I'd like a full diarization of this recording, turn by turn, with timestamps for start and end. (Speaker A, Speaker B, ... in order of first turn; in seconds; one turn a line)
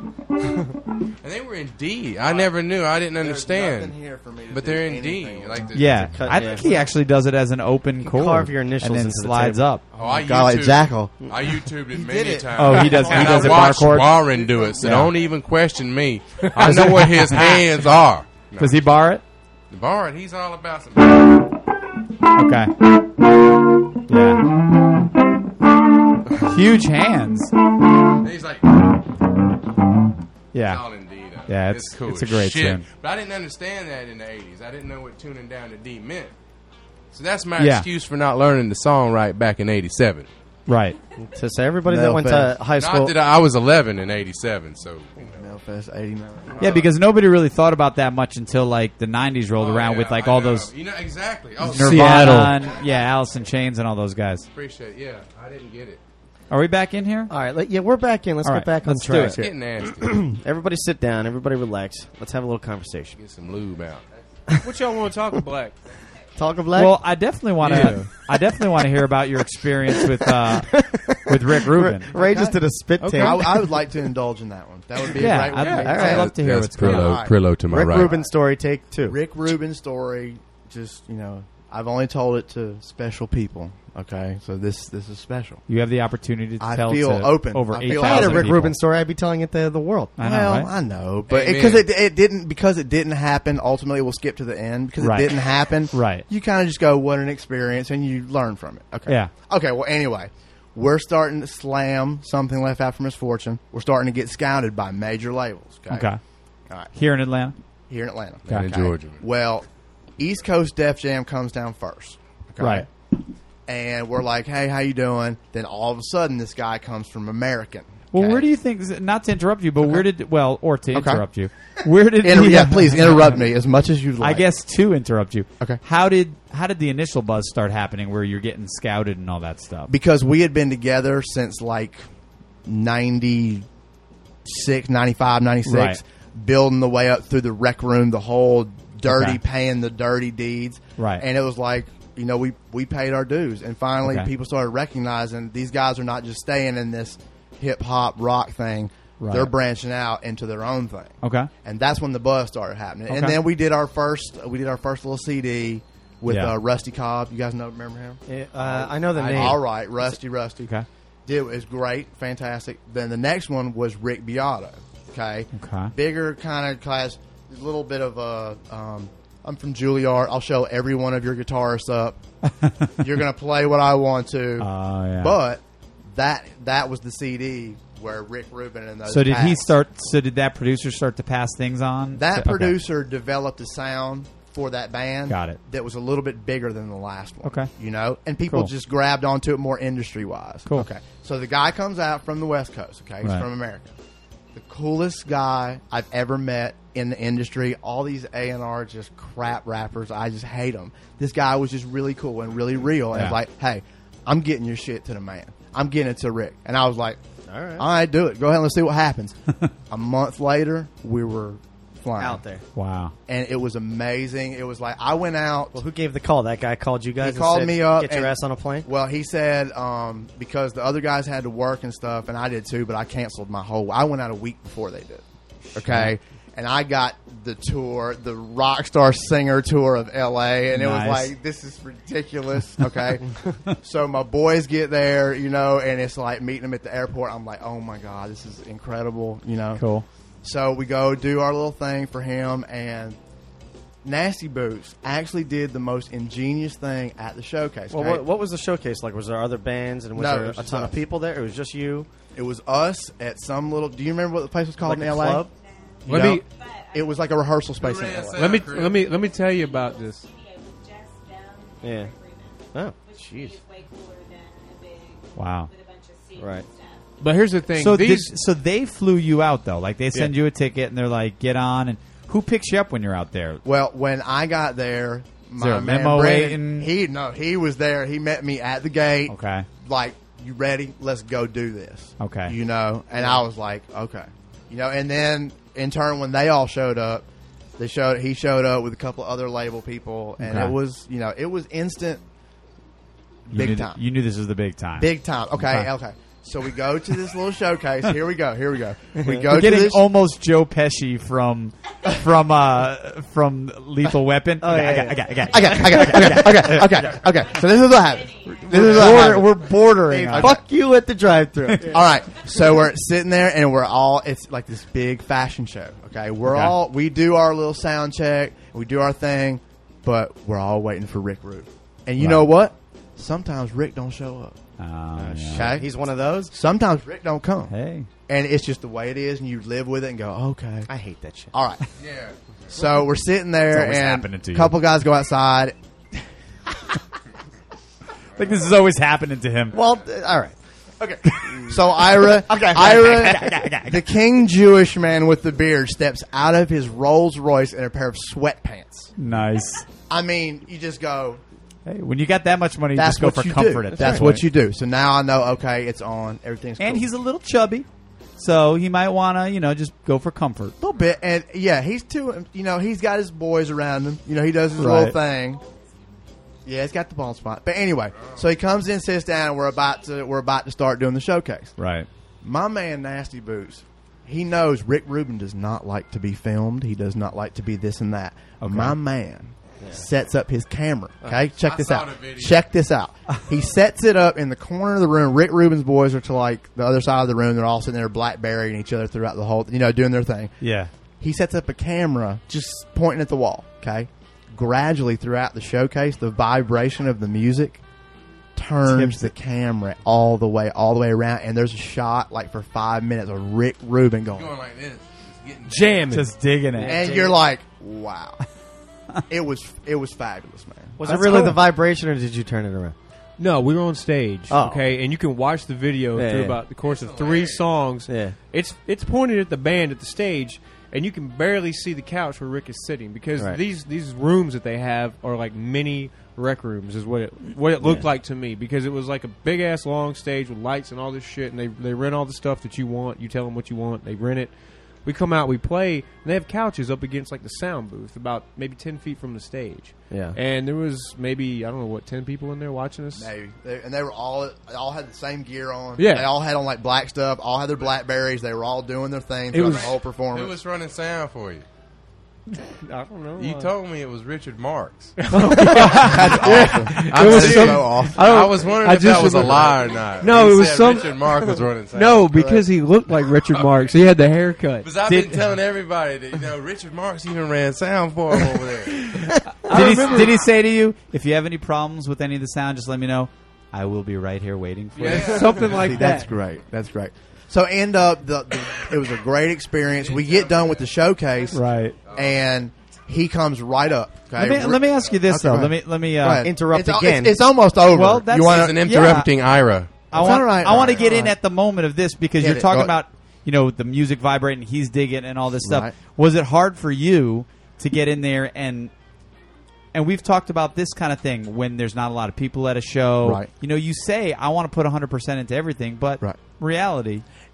Speaker A: 1.2-3.9
Speaker B: 3.2-5.8
Speaker A: 4.5-6.4
Speaker C: 5.7-9.8
Speaker D: 6.0-6.7
Speaker D: 8.0-9.6
Speaker B: 9.9-11.3
Speaker A: 9.9-18.8
Speaker B: 11.9-15.0
Speaker C: 12.5-14.2
Speaker C: 14.8-15.1
Speaker C: 16.6-17.7
Speaker C: 18.6-19.2
Speaker A: 19.7-21.2
Speaker C: 22.3-22.7
Speaker C: 24.1-24.5
Speaker C: 26.4-27.5
Speaker A: 28.2-28.8
Speaker C: 30.5-30.8
Speaker A: 30.6-36.3
Speaker C: 31.5-32.8
Speaker A: 37.1-40.3
Speaker C: 37.6-37.9
Speaker C: 40.7-41.0
Speaker D: 41.2-43.1
Speaker B: 41.9-42.6
Speaker A: 42.7-45.5
Speaker B: 45.2-46.8
Speaker A: 46.5-46.9
Speaker C: 46.6-50.7
Speaker A: 49.6-52.3
Speaker C: 51.6-54.5
Speaker E: 51.7-52.5
Speaker A: 54.5-56.0
Speaker C: 56.5-57.3
Speaker D: 57.3-63.2
Speaker C: 58.4-59.4
Speaker E: 58.9-59.3
Speaker A: 59.3-60.2
Speaker A: 63.2-64.2
Speaker E: 64.6-65.8
Speaker D: 66.3-67.0
Speaker C: 66.7-72.1
Speaker E: 67.6-68.1
Speaker D: 70.1-74.0
Speaker B: 72.1-72.6
Speaker E: 73.0-73.4
Speaker B: 73.2-78.3
Speaker C: 75.1-77.2
Speaker E: 75.5-75.9
Speaker D: 75.7-76.3
Speaker A: 76.0-78.1
Speaker D: 77.7-79.2
Speaker B: 79.0-85.6
Speaker C: 85.7-88.7
Speaker B: 86.6-88.6
Speaker D: 87.8-90.2
Speaker C: 90.2-90.7
Speaker B: 90.2-106.1
Speaker A: 91.3-91.8
Speaker C: 95.0-95.3
Speaker C: 95.9-96.2
Speaker C: 105.9-106.2
Speaker C: 106.9-107.5
Speaker B: 107.9-109.7
Speaker A: 108.5-109.2
Speaker C: 108.5-108.7
Speaker B: 110.2-112.9
Speaker C: 112.6-112.9
Speaker B: 113.7-118.4
Speaker C: 118.1-123.5
Speaker B: 120.9-121.2
Speaker B: 122.2-124.5
Speaker C: 124.2-129.9
Speaker B: 129.9-132.1
Speaker B: 132.6-133.6
Speaker B: 134.4-160.7
Speaker C: 135.6-136.0
Speaker C: 139.1-139.4
Speaker C: 141.0-141.2
Speaker C: 144.0-144.3
Speaker C: 149.2-149.5
Speaker C: 151.2-151.5
Speaker C: 153.1-153.4
Speaker C: 156.3-156.6
Speaker D: 158.3-160.0
Speaker C: 159.3-159.6
Speaker B: 161.2-172.2
Speaker C: 165.5-165.9
Speaker C: 172.6-172.9
Speaker B: 173.0-179.7
Speaker C: 174.6-175.4
Speaker C: 179.1-182.8
Speaker B: 182.1-193.9
Speaker C: 185.3-185.6
Speaker C: 187.4-187.7
Speaker B: 194.5-207.2
Speaker C: 203.1-203.4
Speaker D: 207.5-207.9
Speaker B: 207.8-209.3
Speaker B: 209.9-212.4
Speaker D: 212.2-212.6
Speaker C: 212.7-213.1
Speaker B: 213.3-215.8
Speaker D: 215.7-218.9
Speaker B: 217.2-225.2
Speaker C: 225.7-226.1
Speaker B: 225.7-239.8
Speaker C: 230.7-231.3
Speaker C: 239.8-240.1
Speaker B: 240.4-243.2
Speaker B: 244.0-248.2
Speaker D: 247.9-252.1
Speaker B: 250.1-251.0
Speaker B: 252.3-255.4
Speaker D: 254.8-255.5
Speaker B: 256.0-258.5
Speaker E: 256.1-256.4
Speaker A: 257.8-259.0
Speaker E: 258.3-260.3
Speaker D: 261.8-262.1
Speaker D: 262.7-263.6
Speaker C: 265.3-265.7
Speaker D: 266.4-266.7
Speaker E: 267.2-268.3
Speaker C: 267.8-273.6
Speaker B: 273.6-287.2
Speaker C: 275.6-276.9
Speaker C: 279.3-279.7
Speaker C: 282.2-282.5
Speaker B: 287.8-292.2
Speaker C: 290.4-290.7
Speaker B: 293.5-294.0
Speaker C: 293.5-295.9
Speaker B: 295.0-300.1
Speaker D: 299.2-299.4
Speaker C: 299.4-307.2
Speaker D: 304.6-306.4
Speaker B: 305.5-309.5
Speaker C: 308.5-310.6
Speaker D: 308.6-312.1
Speaker B: 310.3-310.6
Speaker B: 311.9-324.6
Speaker C: 316.4-316.7
Speaker C: 322.2-322.5
Speaker C: 324.8-325.8
Speaker D: 325.1-326.5
Speaker B: 325.5-325.9
Speaker B: 326.5-327.7
Speaker C: 327.7-328.1
Speaker B: 328.3-330.9
Speaker D: 330.9-331.5
Speaker B: 331.5-331.9
Speaker A: 332.0-332.7
Speaker B: 332.7-335.7
Speaker C: 333.7-334.7
Speaker C: 338.3-339.8
Speaker D: 339.7-340.5
Speaker B: 341.0-349.1
Speaker D: 341.5-344.0
Speaker C: 342.8-343.8
Speaker C: 349.2-349.9
Speaker B: 350.0-351.4
Speaker C: 351.9-354.4
Speaker B: 352.9-357.1
Speaker D: 353.9-354.3
Speaker C: 356.8-360.7
Speaker B: 360.8-365.6
Speaker C: 364.8-365.2
Speaker B: 366.6-371.8
Speaker C: 371.8-372.1
Speaker B: 372.4-390.5
Speaker C: 378.6-379.0
Speaker D: 379.8-380.1
Speaker A: 381.6-382.6
Speaker C: 390.6-390.9
Speaker B: 391.2-397.8
Speaker B: 398.6-404.5
Speaker C: 398.9-399.3
Speaker A: 404.3-406.2
Speaker E: 405.7-406.3
Speaker C: 406.1-407.1
Speaker D: 406.7-407.4
Speaker B: 406.8-408.4
Speaker B: 409.3-411.4
Speaker D: 411.0-412.9
Speaker C: 411.0-411.6
Speaker E: 411.1-411.4
Speaker E: 413.4-434.5
Speaker D: 414.5-414.9
Speaker D: 416.1-416.6
Speaker A: 416.8-417.6
Speaker D: 418.1-418.4
Speaker E: 435.0-443.3
Speaker D: 440.1-440.4
Speaker B: 443.1-450.6
Speaker E: 446.0-446.3
Speaker E: 449.5-449.9
Speaker A: 449.7-451.6
Speaker E: 452.7-453.7
Speaker A: 453.4-455.2
Speaker E: 455.2-461.3
Speaker B: 455.9-458.4
Speaker A: 456.1-462.3
Speaker E: 461.9-464.9
Speaker B: 462.3-462.6
Speaker A: 463.5-463.9
Speaker A: 464.8-469.1
Speaker C: 465.0-465.4
Speaker E: 469.6-470.4
Speaker C: 469.6-475.8
Speaker A: 475.0-475.7
Speaker E: 475.0-476.3
Speaker B: 475.7-488.9
Speaker A: 480.0-480.8
Speaker C: 481.5-482.0
Speaker A: 482.0-482.4
Speaker C: 484.4-486.5
Speaker D: 486.4-487.4
Speaker C: 487.9-489.3
Speaker A: 488.4-490.1
Speaker B: 490.1-491.3
Speaker C: 490.1-498.9
Speaker B: 492.4-492.9
Speaker B: 495.6-495.9
Speaker C: 499.9-507.2
Speaker B: 503.2-503.5